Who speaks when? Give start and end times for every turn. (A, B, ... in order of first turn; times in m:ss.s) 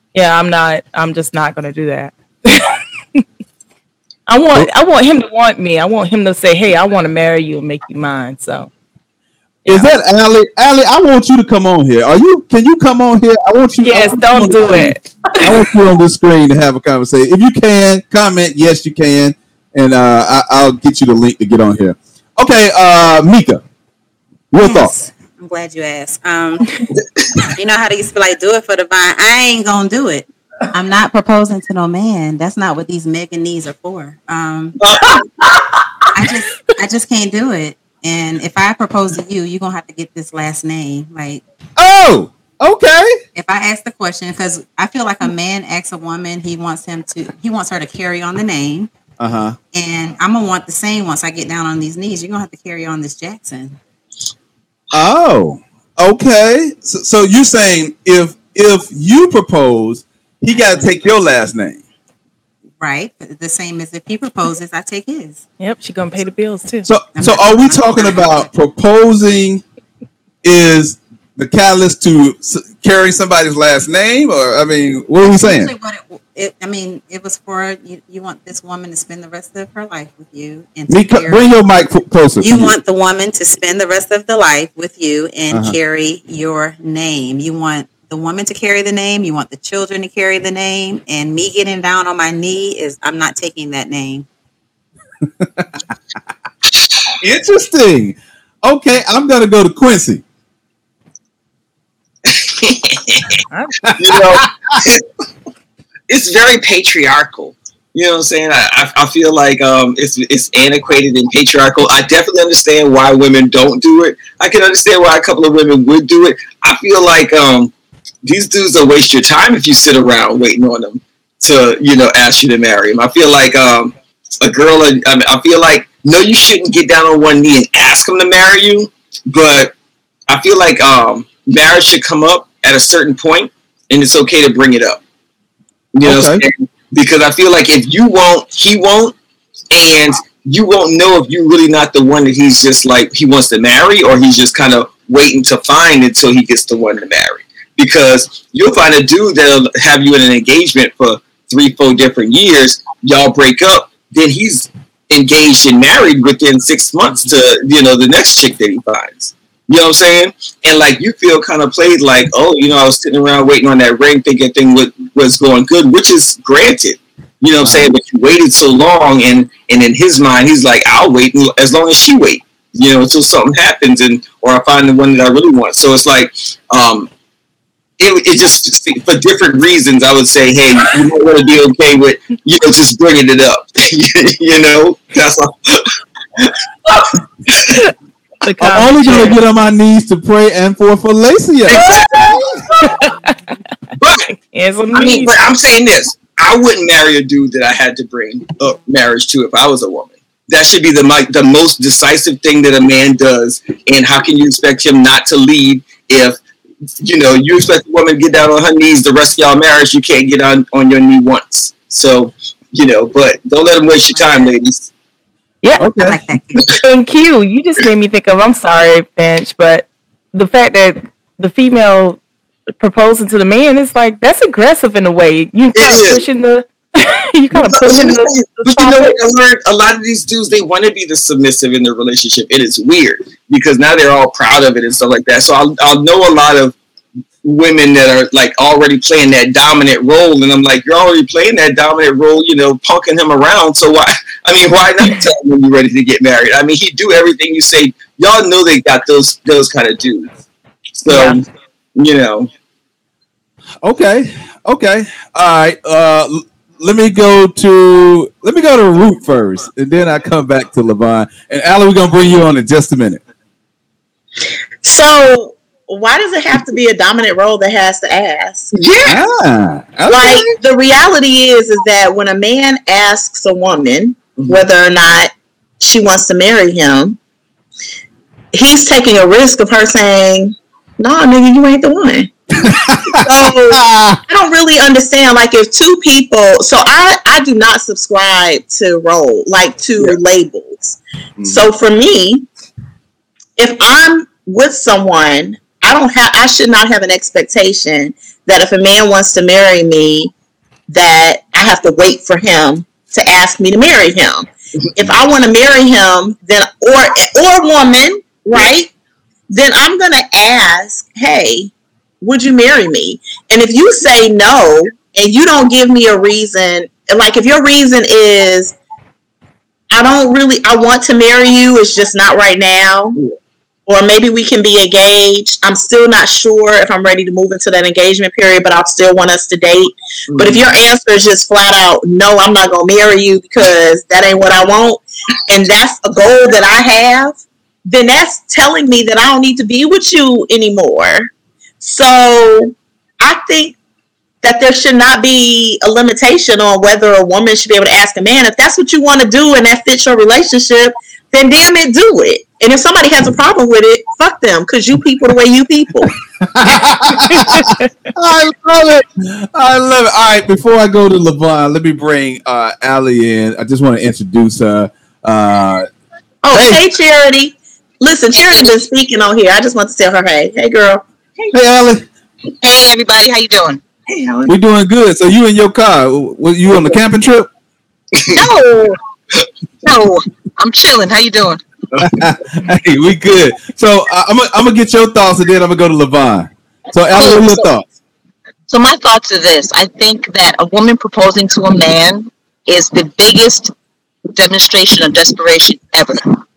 0:00.1-0:03.2 A
0:04.3-0:08.7 A
0:09.6-0:23.6 B
0:13.8-0:15.6 A
0:24.5-0:24.9 B
0:24.6-0:26.7 C
0:27.5-0:34.8 C
0:34.8-0:35.2 D
0:36.1-0:41.4 C
0:41.8-0:43.2 B
0:43.3-0:48.9 C
0:49.2-0:49.6 B
0:49.7-0:53.8 C
0:54.9-1:01.8 B
1:00.5-1:00.9 C
1:02.8-1:05.4 C
1:05.6-1:06.9 A
1:06.8-1:09.6 B
1:07.2-1:08.5 C
1:10.4-1:15.7 B
1:15.2-1:21.5 C
1:20.9-1:22.7 B
1:22.4-1:34.2 C
1:37.2-1:40.2 B
1:42.3-1:43.4 D
1:43.8-1:44.8 B
1:44.0-1:45.0 D
1:46.1-1:57.7 D
1:58.2-2:09.7 D
2:10.3-2:15.0 D
2:15.9-2:19.1 D
2:16.0-2:16.4 B
2:19.7-2:57.1 D
2:58.0-3:06.6 D
3:07.5-3:07.8 D
3:08.4-3:09.4 A
3:08.6-3:12.6 B
3:11.6-3:12.4 D
3:12.9-3:13.3 A
3:14.0-3:14.3 D
3:14.4-3:15.4 A
3:14.9-3:26.4 D
3:27.0-3:34.9 D
3:34.2-3:34.4 C
3:35.8-3:36.2 B
3:36.0-3:36.6 C
3:36.8-3:42.2 A
3:42.8-3:49.2 A
3:45.7-3:46.2 D
3:47.5-3:56.8 D
3:57.4-4:10.4 D
4:11.0-4:12.5 D
4:11.1-4:11.4 A
4:13.8-4:23.2 B
4:24.8-4:28.7 E
4:28.7-4:29.2 D
4:29.0-4:30.5 B
4:30.1-4:37.2 E
4:38.5-4:42.4 E
4:42.6-4:44.2 B
4:43.2-4:52.4 E
4:51.4-4:51.6 B
4:53.6-5:00.3 E
5:00.9-5:08.9 E
5:09.5-5:18.7 E
5:19.9-5:23.2 E
5:23.9-5:41.3 E
5:30.3-5:30.6 D
5:41.8-5:43.8 E
5:44.4-5:56.1 E
5:56.1-6:05.9 B
5:57.3-5:57.8 A
6:06.4-6:11.0 E
6:06.5-6:06.8 B
6:08.3-6:08.8 F
6:11.5-6:12.0 B
6:12.6-6:13.8 F
6:14.1-6:14.5 E
6:14.5-6:17.5 B
6:18.3-6:19.0 F
6:19.8-6:21.6 F
6:22.0-6:27.9 B
6:27.1-6:27.7 F
6:28.7-6:33.7 F
6:34.3-6:36.2 F